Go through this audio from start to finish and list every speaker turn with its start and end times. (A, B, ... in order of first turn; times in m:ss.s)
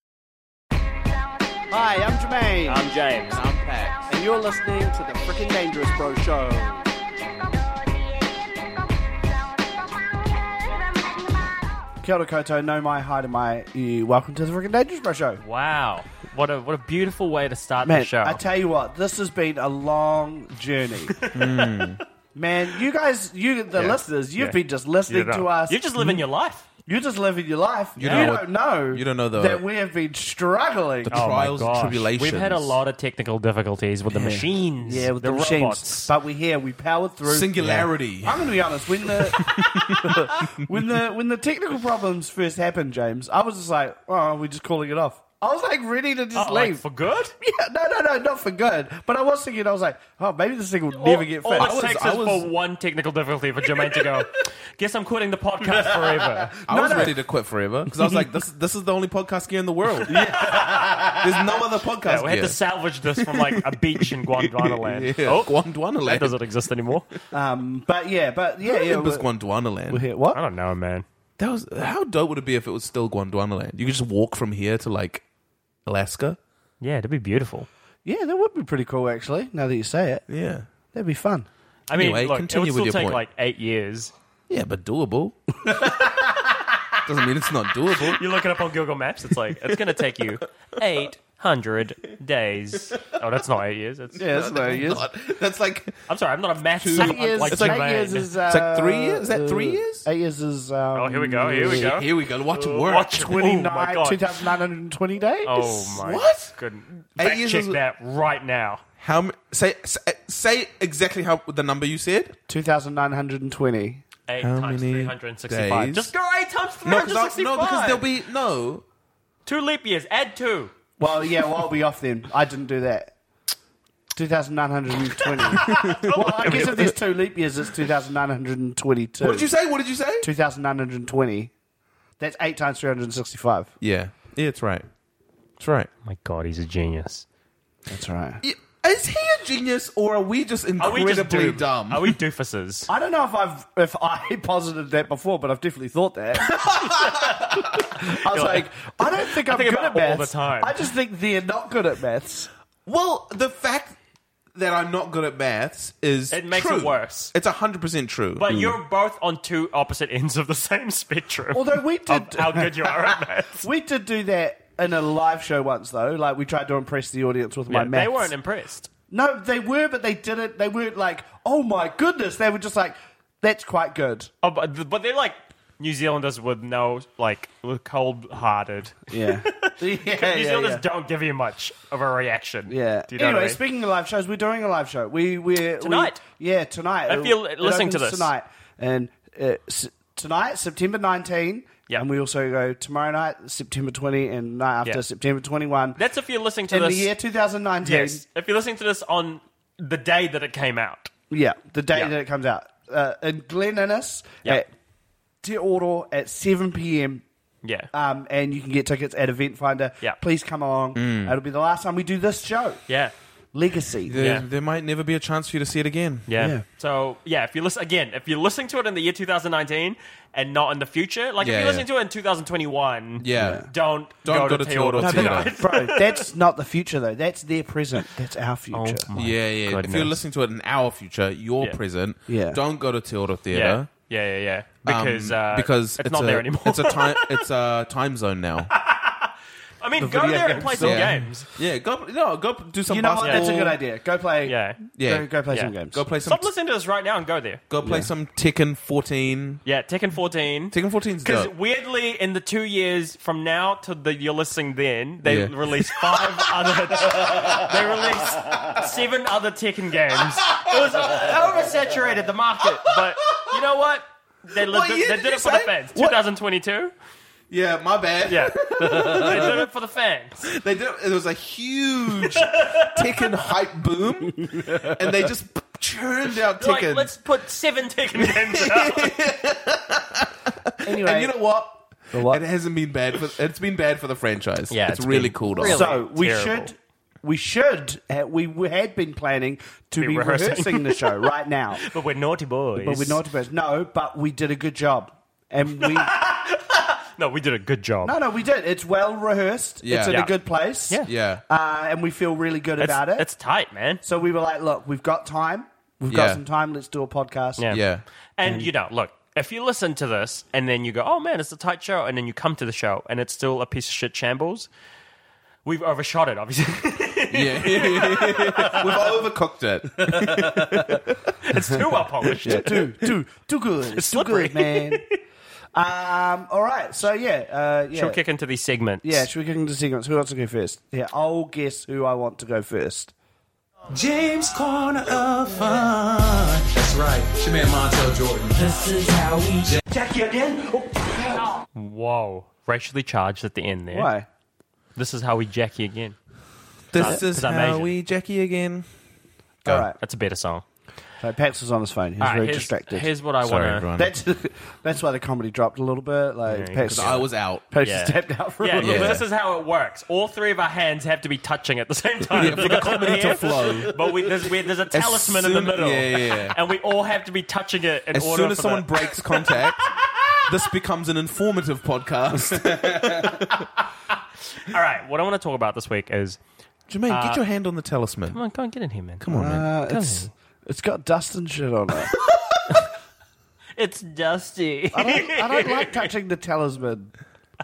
0:01.7-0:02.9 A
0:02.7-0:03.4 B
0:03.3-0:04.0 C
0:04.1-0:06.9 A
0:12.0-0:15.4 A
0:15.4-0:18.4 B
0:17.8-0:21.2 A
0:21.2-0:21.8 B
0:21.3-0:22.0 C
0:22.3-0:25.8 A
0:23.8-0:24.6 B
0:25.1-0:26.6 B
0:26.8-0:31.3 A
0:28.0-0:29.6 C
0:28.0-0:28.3 B
0:31.1-0:32.8 C
0:31.1-0:36.1 B
0:34.1-0:46.8 A
0:37.2-0:38.5 C
0:39.3-0:40.3 C
0:46.3-0:47.3 B
0:47.4-0:51.8 A
0:50.9-0:56.5 B
0:51.5-0:52.5 C
0:56.1-0:57.2 A
0:56.7-1:00.4 C
0:57.9-0:58.2 A
1:00.1-1:01.0 B
1:00.1-1:01.6 A
1:01.1-1:02.6 C
1:02.0-1:07.1 B
1:03.2-1:06.4 C
1:07.3-1:09.3 A
1:08.7-1:10.0 C
1:09.9-1:10.4 A
1:10.3-1:11.0 B
1:11.4-1:15.2 C
1:15.8-1:16.4 C
1:16.8-1:17.7 B
1:18.0-1:20.2 A
1:20.3-1:20.7 C
1:20.9-1:21.5 A
1:21.9-1:24.1 B
1:21.9-1:23.2 C
1:24.5-1:25.5 C
1:25.6-1:26.8 A
1:27.0-1:28.2 C
1:28.1-1:34.3 B
1:29.6-1:30.2 C
1:34.2-1:35.9 C
1:34.2-1:35.0 A
1:36.1-1:38.3 B
1:36.8-1:40.0 C
1:36.9-1:42.0 A
1:40.9-1:44.4 B
1:41.6-1:43.2 C
1:43.1-1:45.8 A
1:45.4-1:48.8 B
1:45.9-1:46.5 C
1:47.2-1:47.8 C
1:49.0-1:52.4 C
1:52.5-1:54.0 A
1:54.3-1:58.0 B
1:54.4-1:56.1 C
1:56.8-1:58.8 C
1:59.4-2:00.7 B
2:01.0-2:03.1 A
2:04.1-2:09.5 A
2:05.2-2:06.8 B
2:05.6-2:06.9 C
2:09.2-2:10.3 C
2:10.2-2:11.5 A
2:12.2-2:13.7 A
2:13.8-2:14.8 C
2:15.6-2:15.9 C
2:16.0-2:17.2 B
2:17.9-2:18.4 A
2:18.4-2:22.2 C
2:20.8-2:22.9 B
2:22.9-2:26.8 A
2:26.5-2:27.6 C
2:27.0-2:30.8 B
2:27.7-2:32.5 A
2:32.8-2:34.0 C
2:34.5-2:38.8 C
2:36.3-2:37.3 B
2:38.4-2:43.7 B
2:41.5-2:48.3 A
2:47.7-2:48.9 B
2:49.1-2:54.3 A
2:54.4-3:03.6 B
2:59.1-3:00.8 A
3:02.7-3:16.0 A
3:05.8-3:06.2 B
3:07.1-3:08.3 B
3:16.0-3:17.1 B
3:16.7-3:18.2 A
3:17.8-3:21.1 B
3:21.3-3:24.7 A
3:25.4-3:27.2 A
3:27.6-3:27.9 B
3:27.9-3:32.8 A
3:30.9-3:31.3 C
3:32.9-3:33.1 B
3:33.5-3:34.2 A
3:34.1-3:36.3 C
3:34.2-3:34.4 B
3:36.3-3:46.2 B
3:36.4-3:36.6 A
3:41.4-3:41.8 C
3:43.2-3:45.5 C
3:43.3-3:43.7 A
3:45.0-3:49.0 A
3:48.7-3:50.2 B
3:49.1-3:53.9 C
3:52.3-3:52.6 A
3:53.5-3:57.4 B
3:54.8-3:58.7 C
3:58.7-4:01.5 B
4:00.0-4:01.2 A
4:00.8-4:03.8 C
4:02.9-4:06.0 A
4:03.2-4:03.5 B
4:04.4-4:04.8 B
4:05.0-4:05.3 C
4:05.9-4:06.5 C
4:06.2-4:07.6 B
4:07.7-4:09.6 C
4:07.8-4:08.1 A
4:09.6-4:26.9 B
4:10.7-4:11.5 C
4:15.2-4:16.2 C
4:20.5-4:21.2 C
4:22.8-4:23.6 C
4:24.6-4:26.2 C
4:27.5-4:29.6 C
4:28.3-4:30.4 B
4:28.9-4:29.2 A
4:30.4-4:37.1 C
4:32.4-4:33.2 B
4:34.5-4:34.9 A
4:36.6-4:39.2 B
4:38.2-4:45.9 C
4:40.8-4:41.4 A
4:42.1-4:42.4 A
4:44.7-4:46.7 B
4:45.6-4:51.8 A
4:50.0-4:51.2 B
4:51.8-4:53.2 B
4:52.8-4:56.2 A
4:55.8-4:58.2 B
4:58.0-5:03.3 A
4:59.8-5:00.4 C
5:00.0-5:00.3 B
5:01.0-5:01.4 C
5:02.8-5:04.0 B
5:04.0-5:07.8 A
5:06.1-5:06.4 C
5:07.6-5:07.8 B
5:07.7-5:08.0 C
5:08.4-5:14.7 B
5:15.6-5:19.2 B
5:17.3-5:21.6 C
5:20.0-5:21.0 A
5:21.4-5:22.8 B
5:22.3-5:22.9 C
5:22.4-5:25.0 A
5:23.9-5:25.2 B
5:25.7-5:28.2 A
5:27.9-5:29.2 B
5:29.0-5:33.1 A
5:33.9-5:39.8 D
5:39.9-5:44.1 B
5:43.9-5:44.3 A
5:45.0-5:46.2 B
5:46.9-5:48.8 C
5:46.9-5:47.9 B
5:49.6-5:50.0 A
5:50.0-5:50.6 B
5:51.2-5:53.1 A
5:52.2-5:53.9 B
5:53.4-5:54.1 C
5:53.9-5:59.2 A
5:56.5-5:57.2 B
5:56.8-5:57.6 C
5:57.8-6:10.4 B
5:58.8-5:59.2 C
6:02.4-6:04.0 C
6:02.4-6:04.2 A
6:04.9-6:06.6 C
6:08.1-6:13.6 C
6:12.4-6:13.3 A
6:14.6-6:16.4 B
6:16.9-6:18.4 C
6:17.1-6:17.4 B
6:18.3-6:20.3 B
6:19.2-6:19.7 C
6:19.3-6:22.2 A
6:23.8-6:26.1 B
6:24.9-6:27.1 A